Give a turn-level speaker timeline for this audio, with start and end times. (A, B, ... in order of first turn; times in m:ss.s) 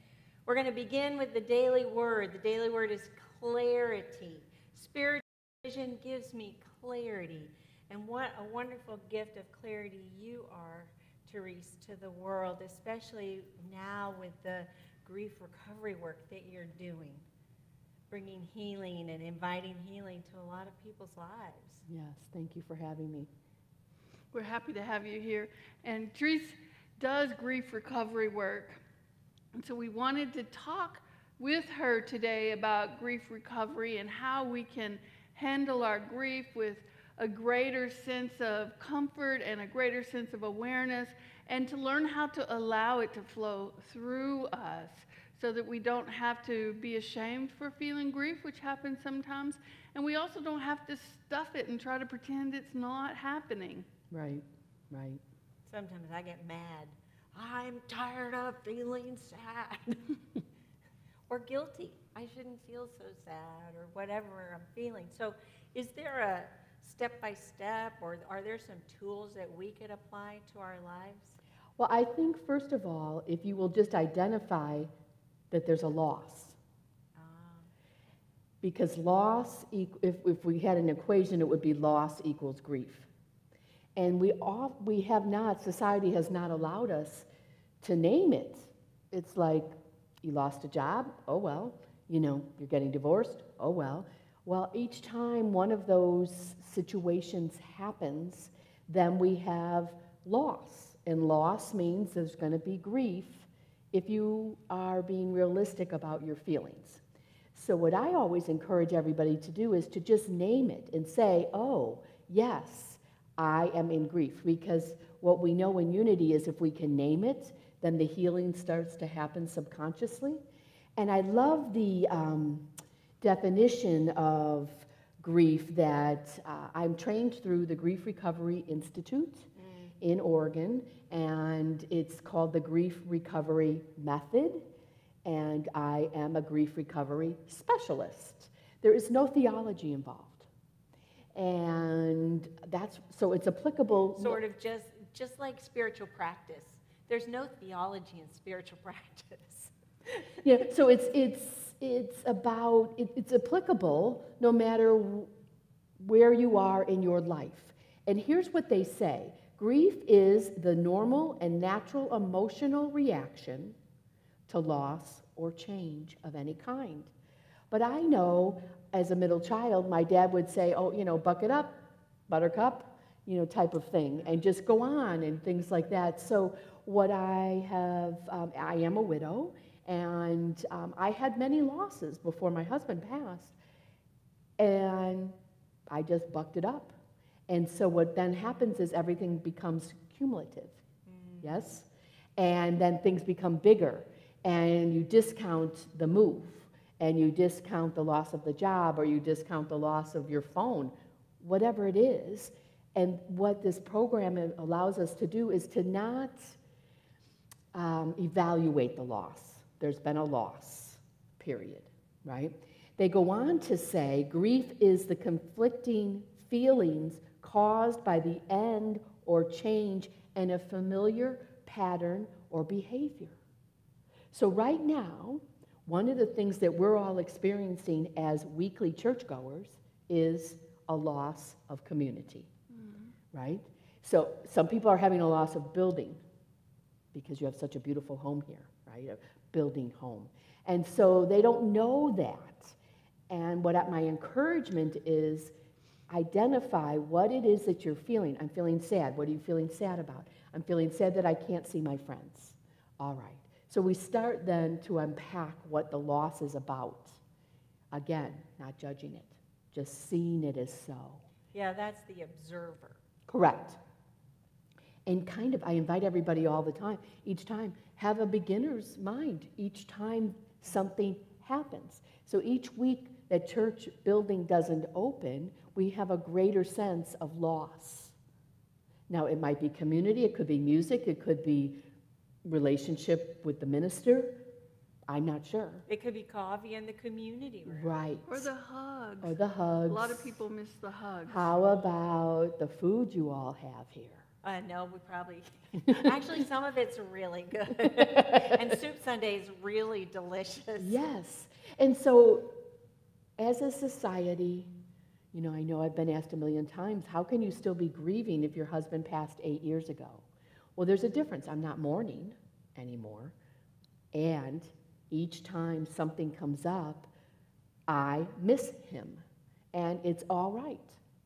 0:00.4-0:17.2 A
0:18.1-0:21.8 A
0:21.9-0:23.3 B
0:24.3-0:28.8 C
0:29.5-0:53.9 C
0:54.1-0:55.2 B
0:55.6-1:00.2 A
1:01.3-1:11.4 A
1:11.8-1:14.9 B
1:15.5-1:16.6 B
1:17.2-1:17.7 A
1:18.6-1:23.1 B
1:24.0-1:27.3 B
1:27.8-1:29.7 B
1:30.2-1:47.0 B
1:47.5-2:00.4 B
2:01.0-2:02.7 B
2:03.2-2:09.5 B
2:09.6-2:10.0 A
2:10.0-2:14.6 B
2:15.2-2:20.5 B
2:21.3-2:24.4 B
2:24.0-2:29.7 A
2:30.4-2:35.3 B
2:36.0-2:43.8 B
2:44.5-2:47.1 B
2:47.7-3:03.6 B
3:04.6-3:05.3 B
3:05.9-3:06.9 B
3:07.5-3:10.8 B
3:11.0-3:11.6 A
3:11.4-3:26.6 B
3:27.7-3:43.4 B
3:44.3-3:52.5 B
3:52.7-3:53.1 C
3:53.3-3:56.2 B
3:57.1-4:02.8 B
4:03.3-4:05.5 B
4:06.1-4:17.2 B
4:17.9-4:21.2 B
4:21.5-4:23.0 A
4:23.3-4:23.8 B
4:25.0-4:38.1 B
4:39.1-4:41.8 B
4:42.4-4:44.4 B
4:45.1-4:45.8 B
4:45.9-4:48.0 A
4:47.7-4:48.5 B
4:48.2-4:51.5 C
4:49.2-4:50.4 B
4:51.3-4:54.2 B
4:54.4-5:01.0 A
5:00.8-5:02.5 B
5:03.4-5:04.7 B
5:05.3-5:13.3 B
5:14.1-5:17.1 B
5:17.9-5:19.2 B
5:19.7-5:21.0 B